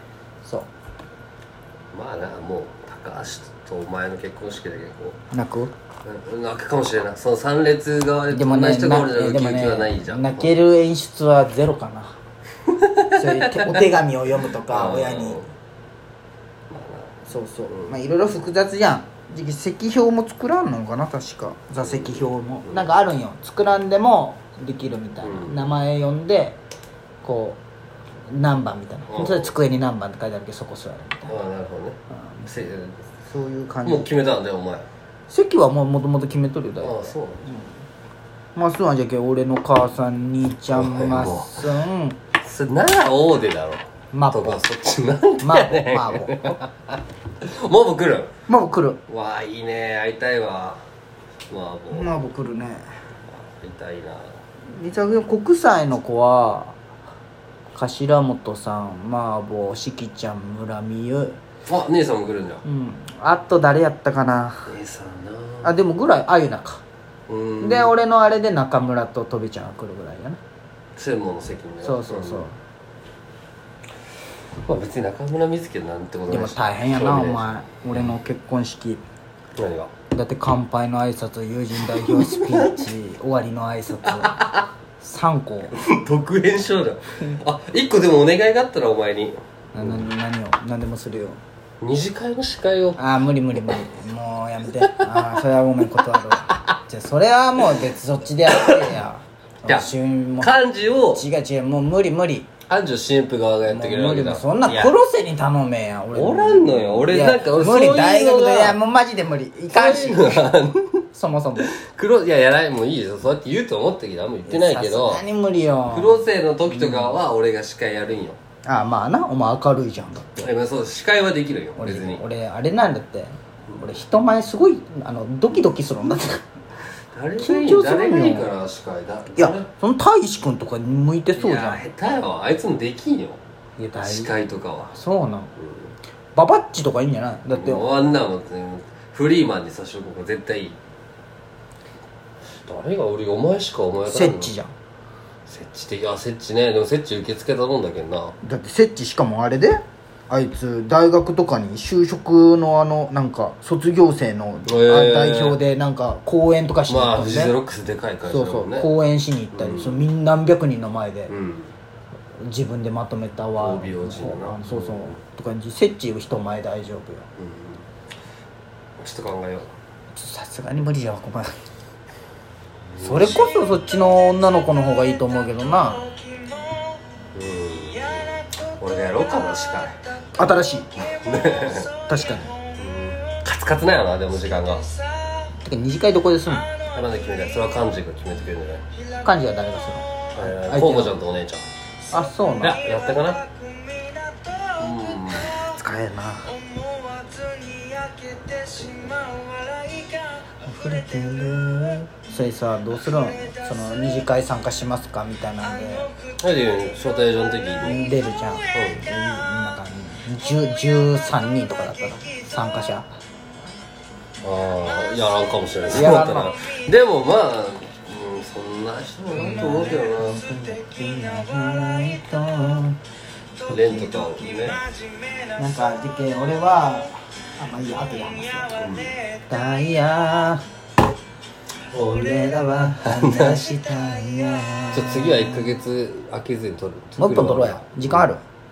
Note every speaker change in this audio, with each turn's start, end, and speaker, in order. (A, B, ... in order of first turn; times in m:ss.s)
0:00.4-0:00.7 A
0:01.9-0:05.2 B
0:05.3-0:05.7 A
0:06.0-0:10.6 B
0:08.3-0:12.2 A
0:12.7-0:13.8 B
0:13.2-0:15.4 A
0:14.7-0:15.5 B
0:16.7-0:17.2 B
0:17.3-0:26.6 A
0:17.7-0:18.0 B
0:21.8-0:22.9 B
0:25.2-0:25.7 B
0:27.2-0:27.6 A
0:28.3-0:31.4 A
0:29.1-0:29.5 B
0:31.3-0:33.1 B
0:33.3-0:34.1 A
0:33.8-0:34.9 B
0:35.3-0:37.7 A
0:36.8-0:37.5 B
0:38.6-0:42.2 A
0:40.7-0:41.7 B
0:42.4-0:48.3 B
0:44.1-0:44.6 A
0:45.4-0:46.6 A
0:48.5-0:49.0 A
0:49.1-0:50.8 B
0:51.5-0:52.2 B
0:51.9-0:52.9 A
0:53.3-0:54.3 B
0:54.7-0:56.8 A
0:57.7-1:01.4 A
1:01.7-1:02.6 B
1:02.6-1:04.8 A
1:04.7-1:05.7 B
1:05.6-1:06.8 A
1:07.3-1:07.9 B
1:07.6-1:10.4 A
1:11.0-1:12.5 B
1:11.8-1:12.6 A
1:14.6-1:18.2 B
1:16.3-1:19.0 A
1:19.6-1:19.9 B
1:20.1-1:24.4 A
1:21.8-1:22.9 B
1:24.0-1:24.7 B
1:25.0-1:25.8 A
1:25.7-1:30.1 B
1:29.7-1:31.4 A
1:31.8-1:33.0 B
1:33.0-1:40.5 A
1:34.8-1:35.2 B
1:39.7-1:41.3 B
1:41.2-1:42.5 A
1:42.7-1:45.0 B
1:43.7-1:50.5 A
1:46.1-1:48.8 B
1:49.7-1:51.0 B
1:51.1-1:51.7 A
1:51.6-1:55.2 B
1:54.5-1:57.2 A
1:55.9-1:58.4 B
1:58.7-2:00.5 A
2:00.4-2:02.2 B
2:01.8-2:06.4 A
2:07.1-2:09.7 B
2:07.4-2:08.5 A
2:09.4-2:11.8 A
2:11.3-2:13.4 B
2:13.8-2:14.4 A
2:14.0-2:14.9 B
2:14.9-2:15.5 A
2:15.6-2:15.9 B
2:16.4-2:17.9 A
2:17.5-2:20.8 B
2:22.6-2:24.5 B
2:24.0-2:24.7 A
2:25.5-2:28.4 B
2:28.4-2:37.6 A
2:34.7-2:35.6 B
2:36.9-2:38.9 B
2:38.3-2:41.3 A
2:39.5-2:40.0 B
2:41.3-2:41.7 B
2:42.4-2:47.3 A
2:43.6-2:45.2 B
2:47.4-2:47.8 B
2:49.0-2:49.7 B
2:50.1-2:51.5 A
2:52.9-2:53.5 B
2:53.0-2:56.1 A
2:57.4-3:00.0 B
3:00.4-3:00.9 A
3:01.0-3:01.9 B
3:01.9-3:02.5 A
3:02.8-3:04.9 B
3:05.6-3:06.7 A
3:06.9-3:08.8 B
3:09.2-3:11.2 A
3:10.3-3:11.6 B
3:12.1-3:12.8 A
3:12.6-3:13.5 B
3:14.8-3:15.6 B
3:15.5-3:16.6 A
3:18.6-3:19.4 B
3:20.6-3:26.1 A
3:26.4-3:28.1 B
3:27.8-3:33.1 A
3:28.7-3:29.0 B
3:34.4-3:40.4 B
3:35.9-3:36.5 A
3:39.3-3:43.0 A
3:43.6-3:44.8 A
3:43.7-3:44.8 B
3:45.6-3:48.8 A
3:48.8-3:49.2 B
3:49.5-3:50.6 A
3:51.9-3:55.8 A
3:53.0-3:53.6 B
3:54.9-3:58.3 B
3:57.2-3:58.4 A